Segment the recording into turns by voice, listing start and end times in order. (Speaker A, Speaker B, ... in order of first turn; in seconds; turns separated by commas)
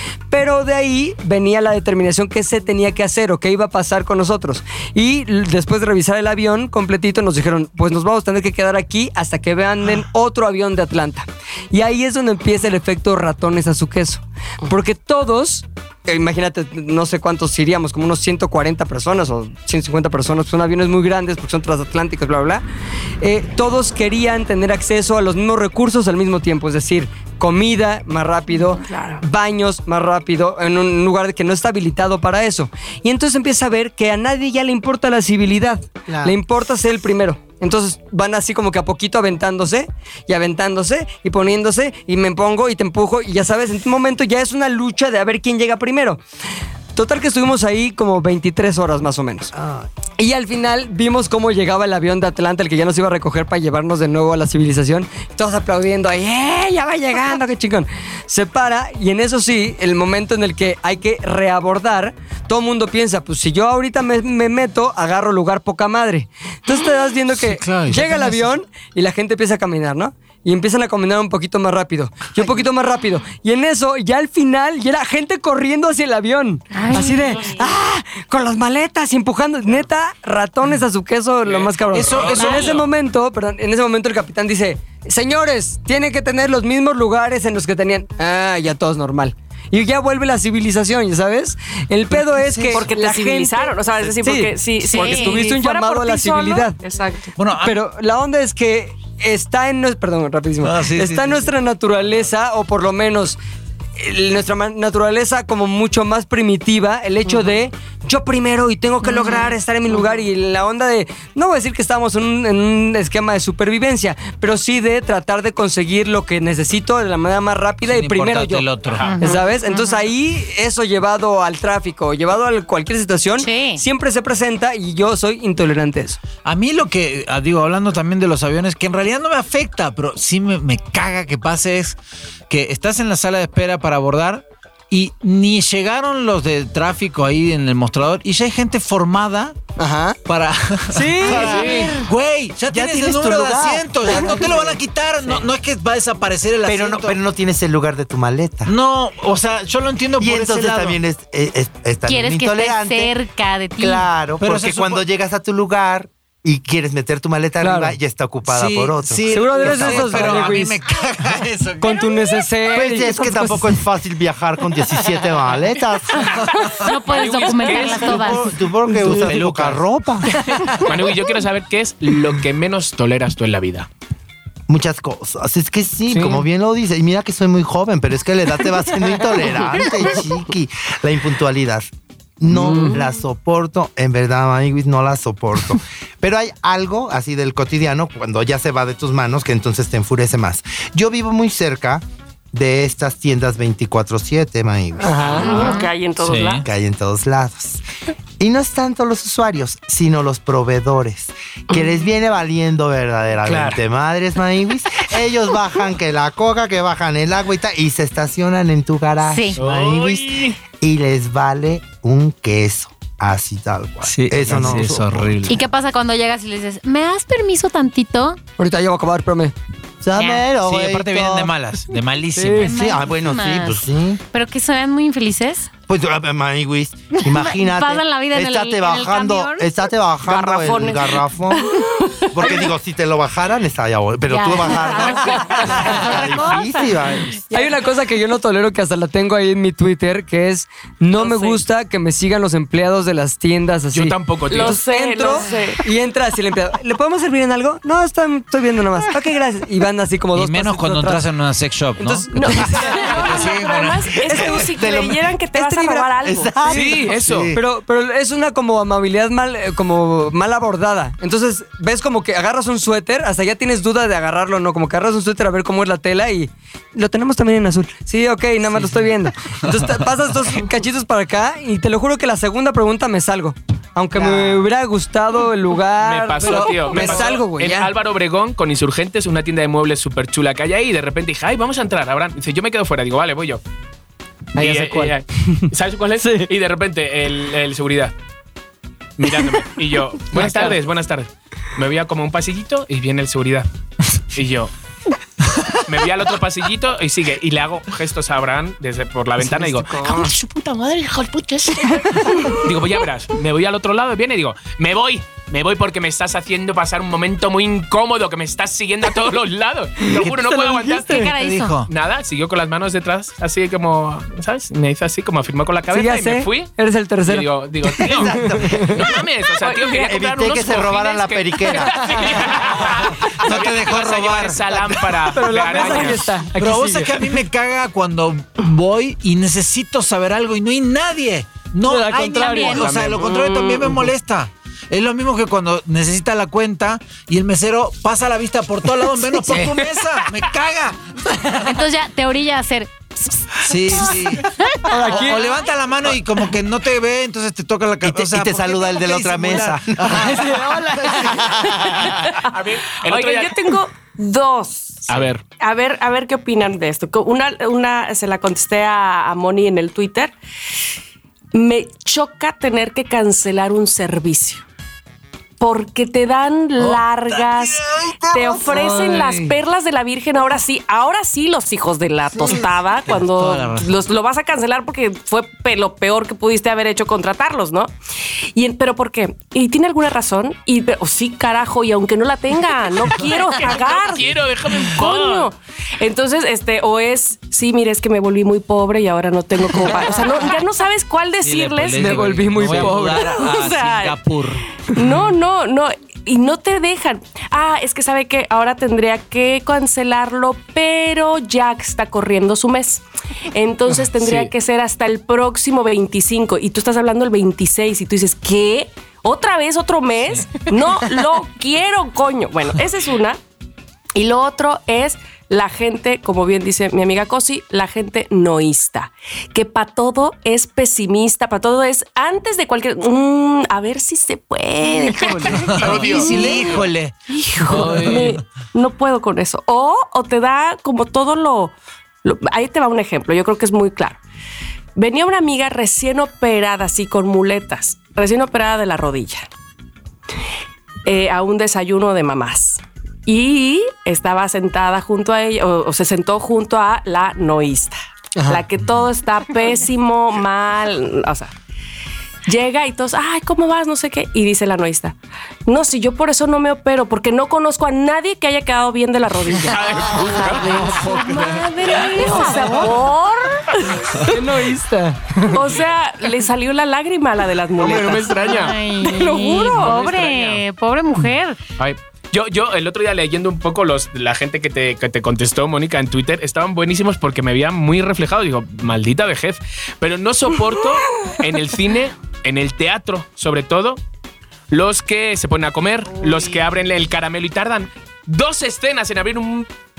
Speaker A: 0.3-22.6, Speaker A: 23.2-46.2, Speaker B: 28.8-29.2, Speaker C: 36.1-36.4, Speaker A: 46.9-49.5, Speaker C: 49.5-49.9, Speaker A: 50.2-96.8, Speaker D: 67.3-68.5, Speaker C: 72.4-72.7, Speaker E: 76.7-77.6, Speaker F: 81.4-82.9, Speaker D: 81.9-82.8, Speaker D: 92.1-92.8, Speaker B: 92.7-97.3, Speaker E: 94.8-95.4, Speaker D: 97.4-97.8, Speaker A: 97.6-103.4, Speaker D: 100.6-101.5, Speaker A: 104.0-118.7, Speaker E: 109.0-109.5, Speaker D: 117.8-119.1, Speaker F: 118.9-119.2, Speaker E: 119.0-120.0, Speaker A: 119.2-126.2, Speaker E: 123.4-123.8, Speaker D: 126.4-132.0, Speaker D: 132.5-139.6, Speaker A: 139.8-140.2, Speaker D: 140.3-147.2, Speaker A: 140.9-142.0, Speaker C: 141.2-142.0, Speaker C: 142.7-144.8, Speaker A: 144.1-144.7, Speaker C: 146.7-148.7, Speaker D: 148.7-151.0, Speaker C: 150.2-153.1, Speaker E: 152.1-154.1, Speaker C: 153.8-160.6, Speaker D: 154.4-155.0, Speaker A: 157.6-158.0, Speaker D: 158.5-162.0, Speaker A: 159.3-160.8, Speaker A: 161.8-163.8, Speaker C: 162.7-166.4, Speaker D: 166.5-166.9, Speaker E: 166.7-168.5, Speaker F: 167.1-168.3, Speaker C: 167.8-170.3, Speaker D: 169.0-170.9, Speaker F: 170.8-173.9, Speaker C: 174.7-195.7, Speaker A: 176.1-176.4, Speaker A: 182.5-183.0, Speaker B: 182.7-183.0, Speaker A: 195.0-195.5, Speaker B: 195.2-196.7, Speaker E: 195.4-195.8, Speaker D: 196.2-196.7, Speaker C: 196.6-197.8, Speaker C: 198.4-215.5, Speaker F: 203.4-203.8, Speaker E: 209.3-209.6, Speaker F: 209.6-210.6, Speaker D: 214.0-215.6, Speaker E: 215.5-218.4, Speaker A: 218.6-219.5, Speaker C: 220.0-221.5, Speaker E: 220.2-220.4, Speaker D: 220.6-222.7, Speaker A: 222.3-222.7, Speaker E: 222.5-225.7, Speaker C: 222.6-224.2, Speaker C: 225.9-237.4, Speaker E: 227.2-229.7, Speaker B: 230.2-232.7, Speaker E: 234.3-237.6, Speaker B: 235.2-235.6, Speaker A: 237.5-251.3, Speaker B: 241.2-241.6, Speaker F: 243.9-244.8, Speaker B: 244.5-245.8, Speaker D: 250.3-254.2, Speaker A: 252.0-253.2, Speaker B: 252.3-256.5, Speaker C: 254.2-255.2, Speaker A: 254.3-254.6, Speaker A: 255.5-277.9, Speaker C: 256.2-257.6, Speaker F: 256.7-257.5, Speaker D: 268.7-269.1, Speaker D: 269.6-270.1, Speaker C: 274.1-274.7, Speaker F: 276.0-283.6, Speaker D: 276.4-277.4, Speaker A: 284.6-285.6, Speaker F: 284.6-288.1, Speaker A: 286.2-286.5, Speaker F: 289.2-293.7, Speaker A: 290.3-290.8, Speaker F: 294.3-294.7, Speaker D: 295.5-295.8, Speaker F: 295.9-311.2, Speaker A: 299.4-300.3, Speaker A: 310.1-311.3, Speaker E: 310.9-311.8, Speaker D: 311.4-311.9, Speaker F: 311.9-316.7, Speaker A: 315.9-319.1, Speaker F: 317.2-326.3, Speaker C: 318.1-319.1, Speaker B: 319.6-320.2, Speaker C: 320.1-322.9, Speaker A: 321.9-322.4, Speaker D: 323.2-324.6, Speaker C: 323.5-323.9, Speaker C: 324.7-325.2, Speaker A: 325.3-327.4, Speaker D: 325.7-341.8, Speaker A: 331.8-333.1, Speaker E: 332.3-332.9, Speaker F: 332.7-333.2, Speaker B: 333.1-333.9, Speaker A: 339.2-340.0, Speaker E: 341.6-345.2, Speaker D: 343.6-350.4, Speaker A: 344.9-345.6, Speaker C: 348.0-350.4, Speaker A: 350.0-351.8, Speaker C: 351.0-352.3, Speaker B: 352.1-352.5, Speaker F: 352.4-353.6, Speaker B: 353.1-360.3, Speaker F: 355.1-355.4, Speaker B: 361.5-364.6, Speaker B: 365.6-377.9, Speaker D: 366.8-369.2, Speaker A: 368.7-369.5, Speaker D: 372.4-374.0, Speaker B: 378.5-384.3, Speaker F: 383.5-385.5, Speaker B: 384.9-394.2, Speaker D: 391.4-394.7, Speaker A: 391.9-393.4, Speaker B: 394.7-413.4, Speaker F: 404.2-404.5, Speaker B: 414.1-434.2, Speaker D: 424.9-428.4, Speaker F: 425.5-426.7, Speaker B: 435.0-439.5, Speaker B: 441.1-451.5, Speaker A: 448.4-448.6, Speaker B: 452.5-464.4, Speaker F: 459.7-460.9, Speaker D: 460.1-462.3, Speaker E: 462.1-462.9, Speaker A: 464.2-465.7, Speaker B: 465.5-469.9, Speaker F: 467.8-468.8, Speaker E: 468.4-471.6, Speaker F: 469.7-470.6, Speaker F: 471.8-484.0, Speaker F: 484.7-489.7